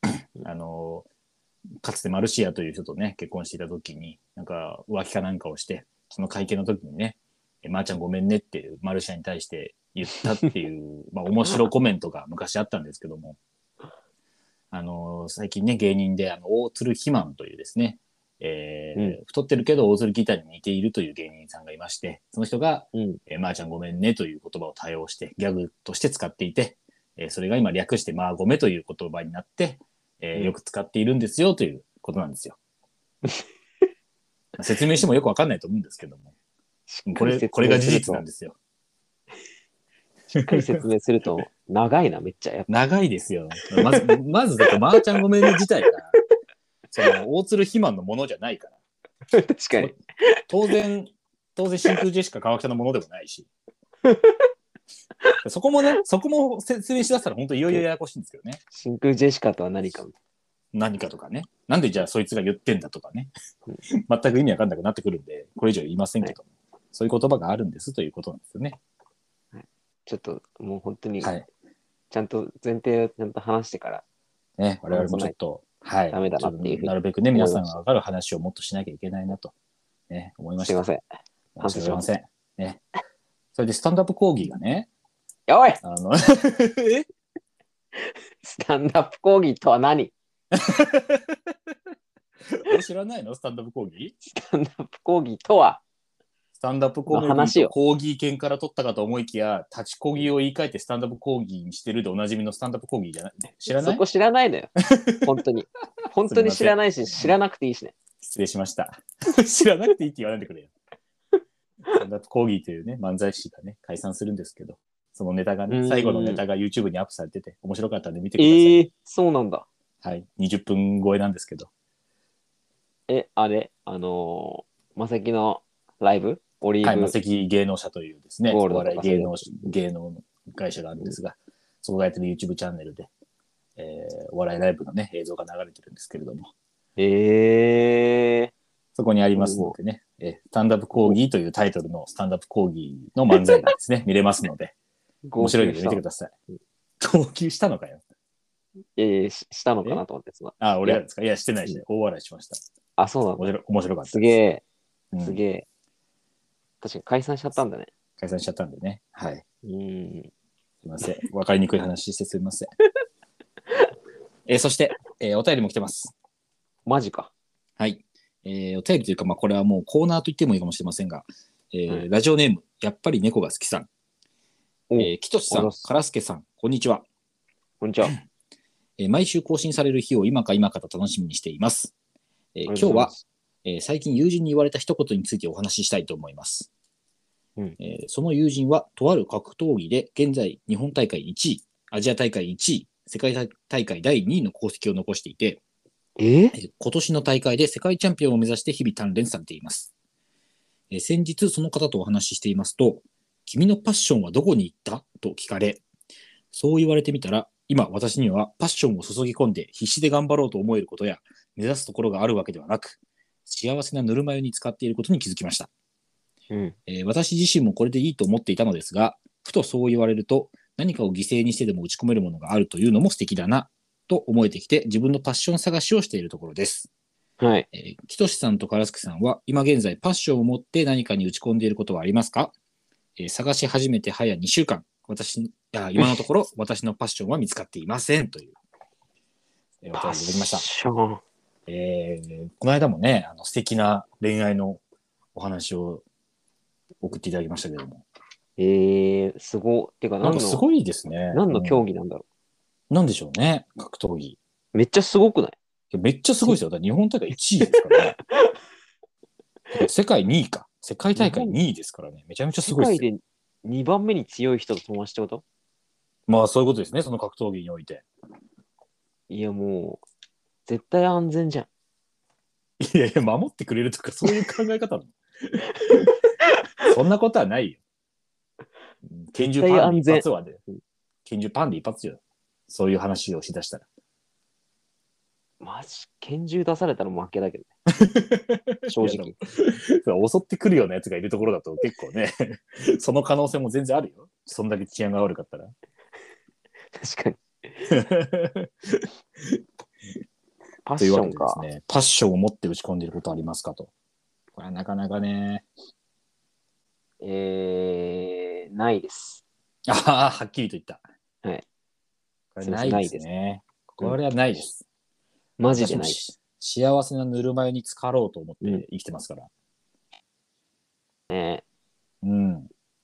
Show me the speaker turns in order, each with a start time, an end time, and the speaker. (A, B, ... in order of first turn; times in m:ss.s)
0:00.4-0:01.0 A
0:01.8-0:13.4 A
0:11.4-0:11.7 B
0:14.7-0:32.6 A
0:34.6-0:36.3 A
0:36.9-0:38.2 B
0:37.0-0:38.6 A
0:40.4-0:42.7 B
0:40.4-0:40.7 A
0:42.7-0:46.2 A
0:43.7-0:44.1 B
0:46.9-0:48.8 A
0:49.3-0:50.4 B
0:50.5-0:53.5 A
0:54.0-0:54.5 B
0:55.4-0:58.6 A
0:58.7-1:00.1 B
1:00.7-1:03.3 A
1:04.1-1:08.8 A
1:09.5-1:11.3 B
1:12.1-1:14.0 B
1:14.6-1:19.5 A
1:14.9-1:15.3 B
1:16.1-1:17.8 B
1:20.1-1:20.9 A
1:20.6-1:21.0 B
1:21.6-1:22.8 A
1:21.6-1:22.0 B
1:23.5-1:24.9 A
1:25.5-1:25.8 B
1:25.8-1:27.0 A
1:28.0-1:30.1 B
1:30.5-1:31.5 A
1:32.5-1:34.1 A
1:34.2-1:35.8 B
1:36.6-1:44.0 A
1:37.1-1:37.7 B
1:43.7-1:44.7 B
1:45.0-1:45.2 A
1:45.2-1:47.9 B
1:46.3-1:47.3 A
1:48.2-1:50.7 A
1:51.9-1:58.8 A
1:55.7-1:56.4 B
1:58.4-1:59.6 B
2:00.0-2:01.7 A
2:03.1-2:07.2 B
2:06.8-2:13.1 A
2:08.5-2:09.7 B
2:13.8-2:16.5 A
2:17.0-2:18.5 B
2:19.0-2:24.7 A
2:19.4-2:19.8 B
2:25.2-2:26.0 B
2:25.4-2:26.3 A
2:27.0-2:28.0 A
2:29.0-2:31.0 B
2:30.6-2:32.6 A
2:33.0-2:33.5 B
2:33.4-2:34.4 A
2:34.1-2:34.6 B
2:35.1-2:35.4 A
2:35.2-2:35.6 B
2:36.8-2:37.9 B
2:38.2-2:39.4 A
2:39.6-2:40.3 B
2:40.8-2:42.7 A
2:44.5-2:46.1 A
2:46.8-2:47.3 B
2:47.8-2:53.9 A
2:54.9-2:55.8 B
2:55.0-2:57.0 A
2:57.8-2:58.2 B
2:59.0-3:01.9 A
3:02.6-3:03.1 A
3:02.7-3:03.2 B
3:03.6-3:06.7 A
3:07.8-3:15.6 A
3:16.2-3:16.6 B
3:16.5-3:19.9 A
3:20.9-3:25.8 A
3:26.5-3:35.7 A
3:36.5-3:36.8 B
3:36.9-3:46.9 A
3:47.4-3:47.7 B
3:47.7-3:52.5 A
3:53.2-3:58.6 A
3:59.8-4:00.6 A
4:00.0-4:01.2 B
4:01.7-4:04.8 A
4:05.3-4:06.0 A
4:07.0-4:08.0 A
4:08.6-4:10.6 B
4:10.2-4:11.8 A
4:11.3-4:12.2 B
4:12.9-4:14.4 A
4:14.7-4:15.6 B
4:15.9-4:18.2 A
4:17.6-4:18.5 B
4:19.7-4:23.1 A
4:21.1-4:21.6 B
4:22.6-4:25.4 B
4:26.3-4:28.0 A
4:29.3-4:30.0 B
4:30.6-4:31.7 B
4:32.8-4:36.1 A
4:36.8-4:37.8 A
4:39.0-4:40.6 A
4:39.4-4:40.3 B
4:41.2-4:43.9 A
4:45.6-4:47.7 B
4:48.0-4:55.7 A
4:48.8-4:49.4 B
4:56.9-4:57.9 B
4:57.9-4:59.6 A
5:00.8-5:01.6 B
5:01.0-5:03.9 A
5:04.6-5:05.6 A
5:07.2-5:09.4 B
5:09.9-5:11.0 A
5:12.5-5:14.8 A
5:12.6-5:13.2 B
5:15.6-5:16.2 B
5:15.7-5:19.5 A
5:21.3-5:21.6 B
5:22.2-5:22.7 A